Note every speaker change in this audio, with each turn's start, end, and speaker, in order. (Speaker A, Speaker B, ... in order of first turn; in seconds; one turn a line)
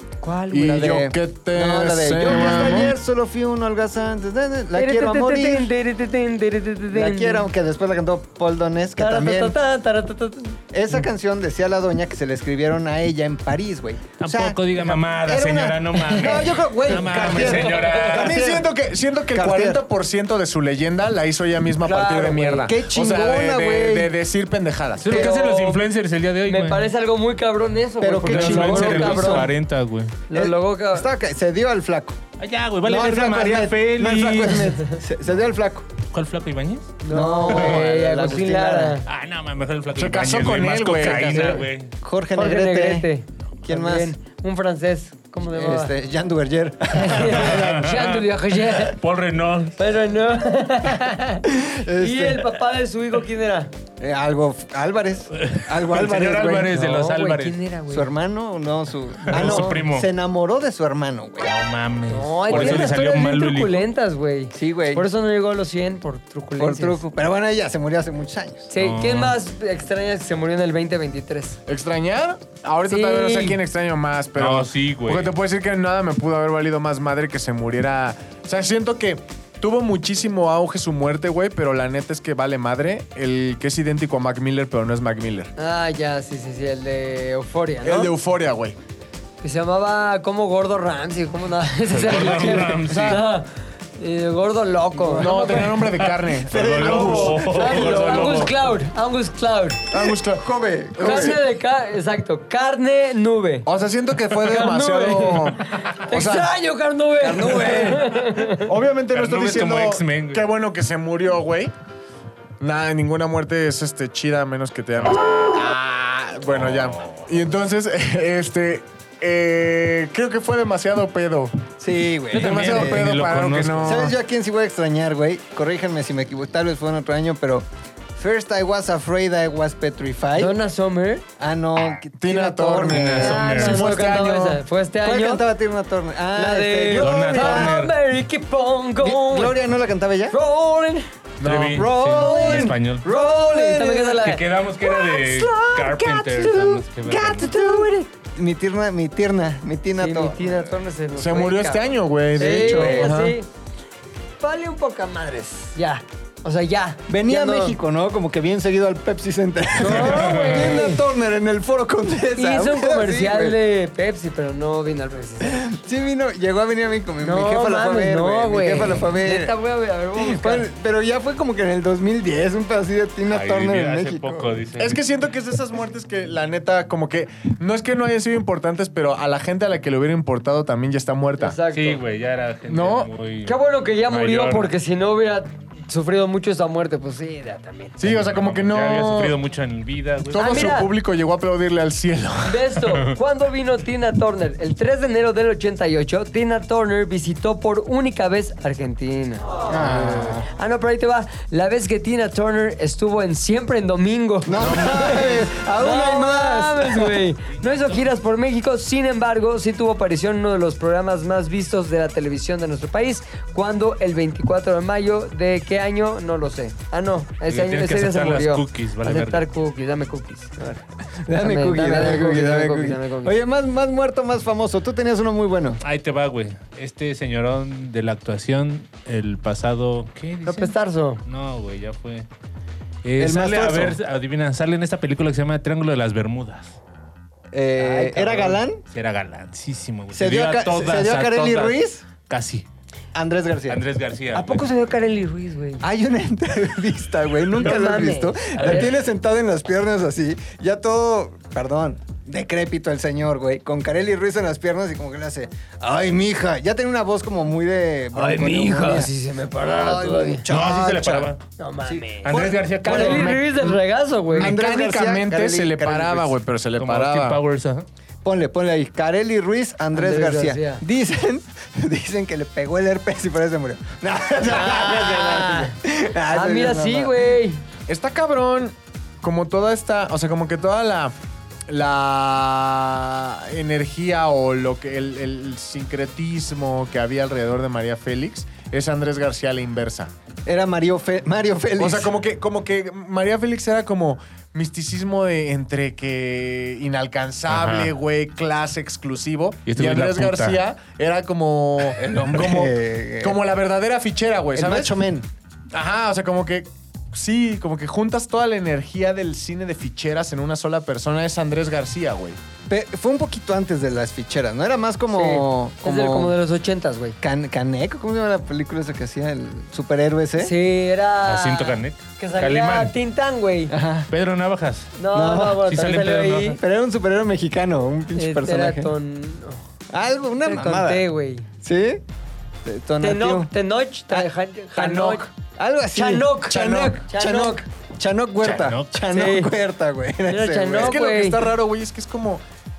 Speaker A: 0.2-1.1
Speaker B: 0.5-3.0
Speaker C: 0.7-5.7
Speaker A: 2.2-2.9
Speaker A: 4.7-7.5
Speaker C: 6.9-9.6
Speaker A: 9.0-10.6
Speaker C: 10.7-18.7
Speaker D: 14.2-18.4
Speaker A: 16.0-18.2
Speaker B: 18.0-25.3
Speaker C: 19.3-19.8
Speaker A: 21.8-22.8
Speaker C: 22.6-24.1
Speaker D: 25.0-26.9
Speaker A: 25.1-25.8
Speaker A: 26.5-29.5
Speaker C: 28.0-29.5
Speaker D: 28.2-30.1
Speaker B: 28.6-29.0
Speaker A: 30.3-31.1
Speaker C: 30.3-32.2
Speaker D: 32.4-34.8
Speaker C: 32.8-35.9
Speaker D: 36.1-37.0
Speaker A: 37.0-39.0
Speaker C: 37.1-39.0
Speaker D: 37.5-37.8
Speaker D: 39.0-41.9
Speaker B: 39.9-41.6
Speaker C: 41.0-43.1
Speaker A: 42.3-45.9
Speaker C: 43.6-44.1
Speaker C: 45.5-48.1
Speaker A: 46.9-49.0
Speaker D: 47.2-49.8
Speaker A: 49.8-53.7
Speaker C: 51.5-52.5
Speaker C: 54.0-56.8
Speaker D: 55.3-57.6
Speaker A: 56.7-58.1
Speaker C: 57.9-61.5
Speaker D: 59.2-60.1
Speaker D: 61.4-63.8
Speaker A: 62.1-67.0
Speaker C: 62.5-62.9
Speaker C: 64.5-65.1
Speaker C: 66.6-68.7
Speaker A: 68.7-71.6
Speaker D: 68.8-69.3
Speaker B: 71.7-85.5
Speaker A: 72.9-73.6
Speaker D: 74.4-75.3
Speaker A: 85.6-88.1
Speaker B: 87.8-88.8
Speaker A: 89.4-95.8
Speaker D: 91.9-93.2
Speaker B: 92.3-93.2
Speaker C: 95.0-95.8
Speaker B: 95.1-98.5
Speaker D: 96.0-98.5
Speaker C: 96.5-98.0
Speaker A: 97.3-99.8
Speaker B: 99.9-101.4
Speaker C: 100.0-101.4
Speaker A: 101.0-103.7
Speaker B: 103.7-106.5
Speaker A: 104.3-108.7
Speaker C: 107.2-108.3
Speaker B: 108.6-111.7
Speaker D: 109.1-110.5
Speaker B: 112.6-121.6
Speaker D: 116.5-117.3
Speaker C: 121.8-123.1
Speaker B: 122.3-124.1
Speaker D: 122.3-124.1
Speaker C: 123.8-130.5
Speaker A: 130.4-131.2
Speaker C: 131.4-134.2
Speaker B: 132.2-134.6
Speaker D: 132.9-133.9
Speaker A: 133.0-135.4
Speaker C: 135.0-137.8
Speaker A: 136.3-139.6
Speaker D: 136.9-137.9
Speaker C: 139.0-140.4
Speaker A: 140.3-141.1
Speaker B: 141.4-142.0
Speaker D: 141.4-143.1
Speaker C: 141.7-144.2
Speaker A: 142.1-144.5
Speaker D: 144.1-147.6
Speaker C: 144.8-150.8
Speaker A: 149.9-153.5
Speaker B: 151.1-153.3
Speaker C: 152.4-153.2
Speaker A: 154.4-157.8
Speaker C: 157.1-163.6
Speaker A: 159.8-161.0
Speaker D: 159.9-160.8
Speaker A: 162.4-165.7
Speaker C: 165.4-169.5
Speaker A: 167.2-170.7
Speaker C: 170.2-174.5
Speaker D: 173.3-175.0
Speaker B: 174.8-181.6
Speaker A: 181.4-182.0
Speaker D: 181.7-183.6
Speaker B: 182.7-183.1
Speaker A: 183.4-188.0
Speaker D: 184.1-184.7
Speaker B: 188.0-189.4
Speaker D: 188.0-190.7
Speaker B: 190.2-192.6
Speaker A: 190.3-190.9
Speaker A: 192.4-223.4
Speaker C: 199.7-200.5
Speaker D: 199.8-200.2
Speaker C: 204.5-207.2
Speaker D: 204.5-205.4
Speaker D: 207.5-208.1
Speaker D: 217.5-219.4
Speaker C: 221.2-225.8
Speaker D: 225.8-232.3
Speaker A: 230.4-231.2
Speaker D: 233.0-236.8
Speaker C: 233.2-234.0
Speaker C: 237.5-238.8
Speaker A: 237.8-238.6
Speaker D: 238.9-242.7
Speaker C: 240.1-242.0
Speaker C: 243.1-243.8
Speaker D: 243.7-244.6
Speaker A: 244.3-245.9
Speaker C: 245.8-261.3
Speaker A: 247.5-248.9
Speaker A: 258.1-260.4
Speaker D: 260.5-261.4
Speaker A: 261.6-264.6
Speaker C: 261.9-263.4
Speaker D: 262.2-263.3
Speaker B: 262.9-263.8
Speaker B: 264.3-267.4
Speaker C: 264.3-266.4
Speaker D: 266.8-267.9
Speaker C: 268.2-277.1
Speaker A: 269.9-270.8
Speaker A: 274.4-275.8
Speaker A: 276.3-277.6
Speaker B: 277.9-281.1
Speaker B: 281.7-290.1
Speaker C: 290.5-292.1
Speaker B: 291.8-305.0
Speaker D: 297.5-297.9
Speaker D: 299.6-300.6
Speaker C: 302.0-303.4
Speaker C: 304.5-305.3
Speaker B: 305.7-312.4
Speaker C: 312.7-316.4
Speaker A: 315.1-317.1
Speaker C: 317.2-320.5
Speaker A: 320.4-323.7
Speaker D: 321.2-322.9
Speaker C: 323.7-324.1
Speaker D: 324.1-324.9
Speaker A: 325.0-326.6
Speaker C: 325.1-325.7
Speaker D: 325.6-326.6
Speaker C: 326.4-328.9
Speaker A: 328.1-329.6
Speaker C: 329.9-331.0
Speaker A: 330.4-331.5
Speaker C: 331.6-332.0
Speaker C: 332.6-333.5
Speaker A: 333.0-335.3
Speaker B: 334.8-335.3
Speaker C: 335.5-341.0
Speaker A: 335.9-337.6
Speaker D: 338.4-339.0
Speaker A: 339.1-339.6
Speaker A: 340.3-341.5
Speaker B: 340.8-342.4